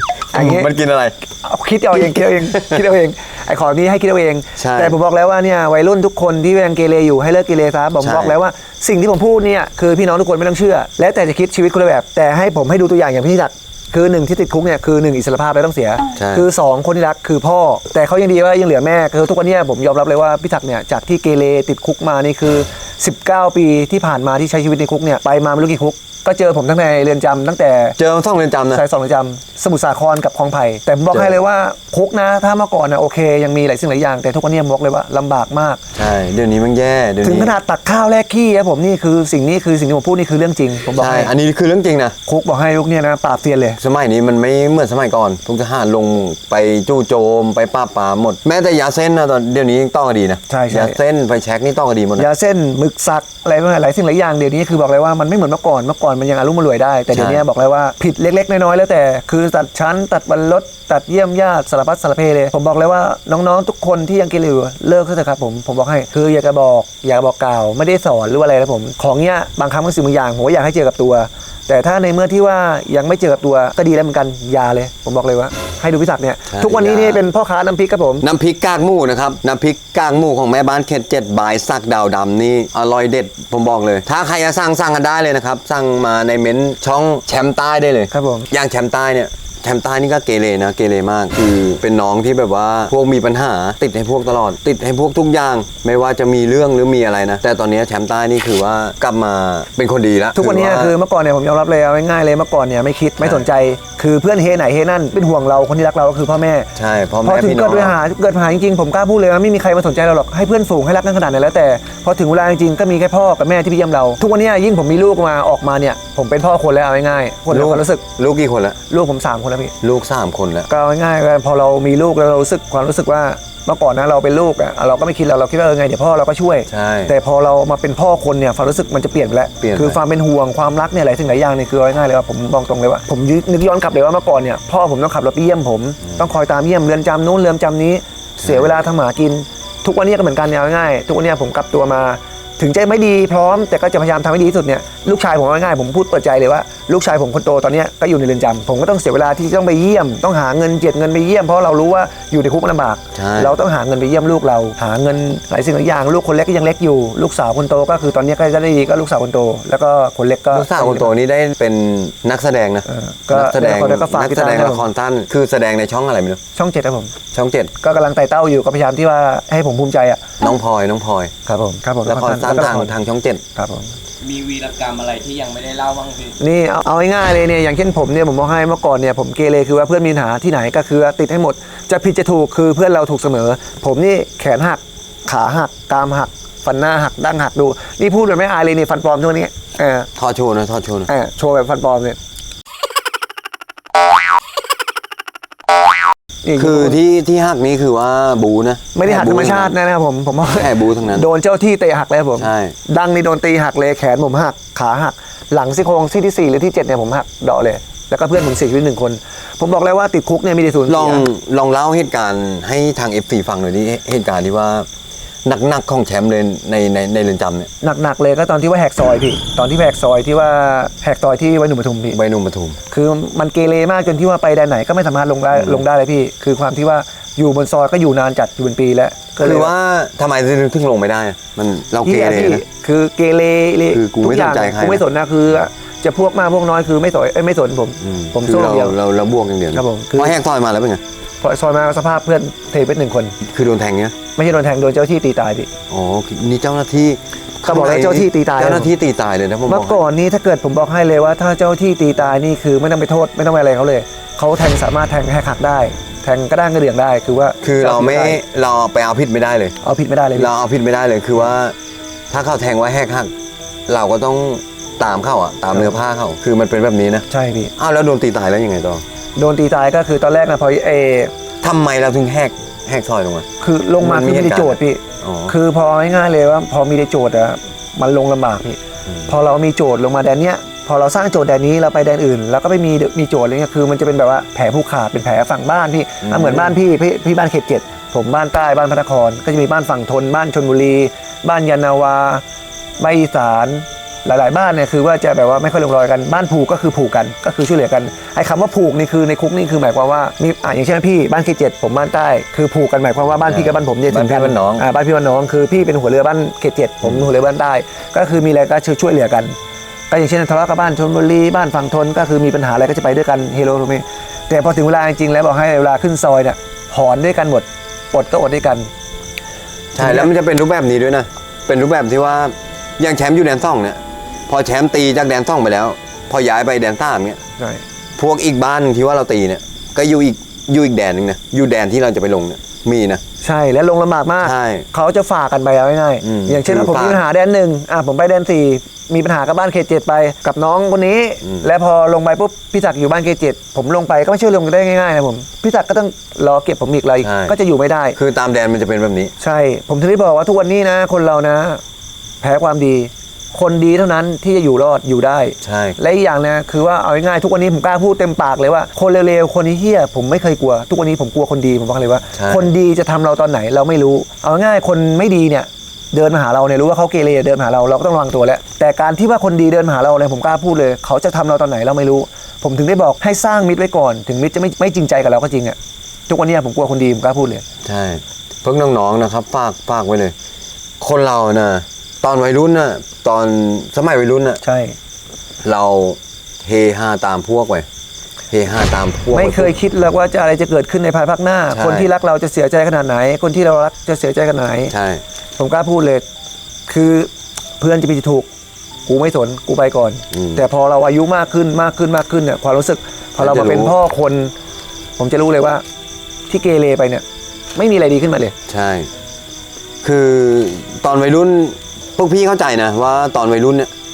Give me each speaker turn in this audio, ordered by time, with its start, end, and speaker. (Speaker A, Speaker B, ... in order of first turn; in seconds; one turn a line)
Speaker A: 0.3-0.7
Speaker B: 0.3-1.2
Speaker A: 1.4-28.0
Speaker B: 1.9-2.8
Speaker B: 4.6-5.0
Speaker B: 8.0-8.4
Speaker B: 16.1-16.4
Speaker B: 28.0-28.8
Speaker A: 28.7-35.8
Speaker B: 31.1-31.4
Speaker B: 35.9-37.5
Speaker A: 37.2-41.3
Speaker B: 40.9-42.1
Speaker A: 42.3-43.8
Speaker B: 43.8-52.3
Speaker A: 50.5-51.0
Speaker A: 52.2-78.2
Speaker B: 57.1-57.4
Speaker B: 76.5-77.2
Speaker B: 78.2-100.9
Speaker A: 88.1-88.5
Speaker A: 100.3-106.7
Speaker B: 106.8-108.0
Speaker A: 107.2-118.0
Speaker B: 117.5-118.8
Speaker A: 118.9-119.7
Speaker B: 119.8-120.7
Speaker A: 120.7-161.1
Speaker B: 126.7-127.1
Speaker B: 129.6-130.0
Speaker B: 153.1-153.6
Speaker B: 160.5-166.4
Speaker A: 162.9-164.9
Speaker A: 166.5-167.1
Speaker B: 167.3-167.7
Speaker A: 167.8-170.2
Speaker B: 170.4-171.3
Speaker A: 171.4-172.9
Speaker B: 172.0-173.4
Speaker A: 173.6-173.9
Speaker C: 174.2-176.3
Speaker A: 176.4-190.1
Speaker B: 190.1-191.1
Speaker A: 191.1-192.2
Speaker A: 196.4-197.0
Speaker B: 196.6-199.7
Speaker A: 198.9-211.3
Speaker B: 200.5-201.3
Speaker B: 202.4-202.8
Speaker B: 210.9-214.9
Speaker B: 215.4-217.7
Speaker A: 217.8-222.2
Speaker B: 222.1-222.8
Speaker A: 222.9-229.7
Speaker B: 225.5-225.8
Speaker B: 229.4-232.6
Speaker A: 232.0-238.9
Speaker B: 233.9-235.0
Speaker B: 238.0-241.0
Speaker A: 239.7-240.3
Speaker A: 241.4-243.3
Speaker B: 243.4-244.1
Speaker A: 244.3-245.7
Speaker B: 245.9-250.0
Speaker A: 247.6-248.9
Speaker A: 249.7-258.4
Speaker B: 257.6-259.7
Speaker A: 259.8-260.5
Speaker B: 260.3-261.7
Speaker B: 262.3-263.3
Speaker B: 263.9-267.2
Speaker A: 265.7-266.0
Speaker A: 267.3-267.7
Speaker B: 267.8-269.0
Speaker A: 269.4-271.3
Speaker B: 271.6-273.4
Speaker A: 273.6-292.4
Speaker B: 274.0-275.5
Speaker B: 286.2-286.7
Speaker A: 293.0-309.6
Speaker B: 303.4-304.8
Speaker B: 307.0-307.3
Speaker A: 310.1-318.9
Speaker B: 319.9-327.4
Speaker A: 320.0-320.3
Speaker B: 328.2-333.2
Speaker A: 333.4-348.2
Speaker B: 334.4-334.9
Speaker B: 336.2-337.2
Speaker B: 347.2-347.5
Speaker B: 348.1-349.3
Speaker A: 349.4-351.8
Speaker A: 352.4-377.6
Speaker B: 355.6-356.0
Speaker B: 362.3-362.7
Speaker B: 377.8-380.3
Speaker B: 381.0-384.6
Speaker A: 384.6-384.9
Speaker B: 385.6-387.9
Speaker B: 388.5-389.7
Speaker A: 389.3-394.9
Speaker B: 391.7-392.1
Speaker B: 394.9-395.2
Speaker A: 395.6-396.2
Speaker A: 396.9-398.5
Speaker A: 399.1-404.5
Speaker B: 400.3-400.6
Speaker B: 403.4-403.9
Speaker A: 405.2-405.8
Speaker A: 406.5-408.5
Speaker B: 408.7-409.1
Speaker B: 410.0-413.9